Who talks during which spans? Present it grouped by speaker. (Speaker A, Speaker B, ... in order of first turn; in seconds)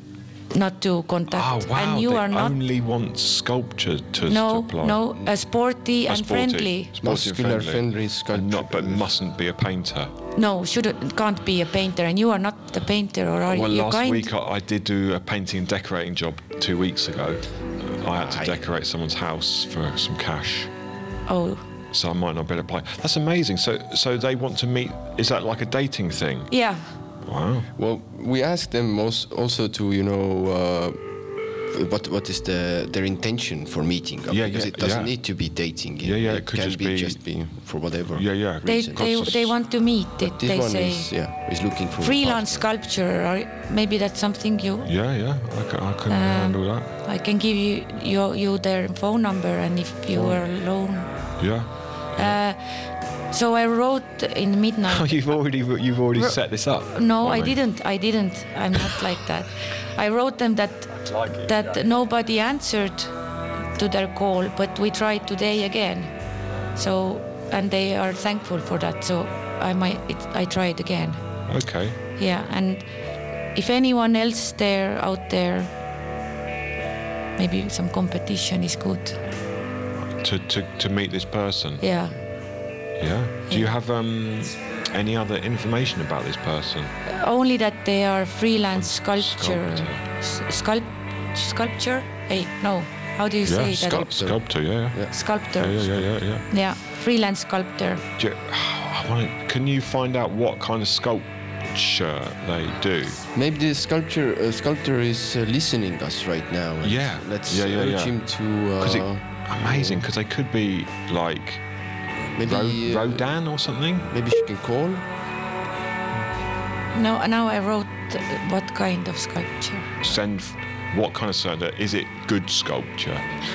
Speaker A: 0.5-2.6, 4.3-6.9, 10.3-14.3, 21.3-21.6, 26.5-26.9, 38.6-41.1, 42.0-44.9, 46.1-51.1, 52.1-55.2, 56.9-63.1, 63.7-66.1, 66.7-71.2, 72.2-72.9, 73.5-75.7, 77.4-79.2, 81.8-82.2, 87.0-94.1, 95.1-98.0, 116.9-119.9
Speaker B: 1.3-5.0, 6.1-10.1, 13.4-20.7, 21.9-26.5, 27.2-27.7, 34.3-35.2, 36.0-37.2, 38.1-39.5, 44.8-46.9, 51.4-52.4, 54.9-57.6, 61.0-61.8, 71.5-72.0, 80.1-81.8, 83.0-86.9, 88.7-90.0, 93.5-96.5, 98.2-103.2, 106.8-108.2, 108.8-111.6, 112.4-114.1, 120.0-123.3
Speaker C: 7.0-9.1, 18.1-18.6, 27.8-31.0, 31.7-39.3, 40.2-42.6, 93.8-95.1, 103.3-110.0, 112.3-113.3, 114.1-115.0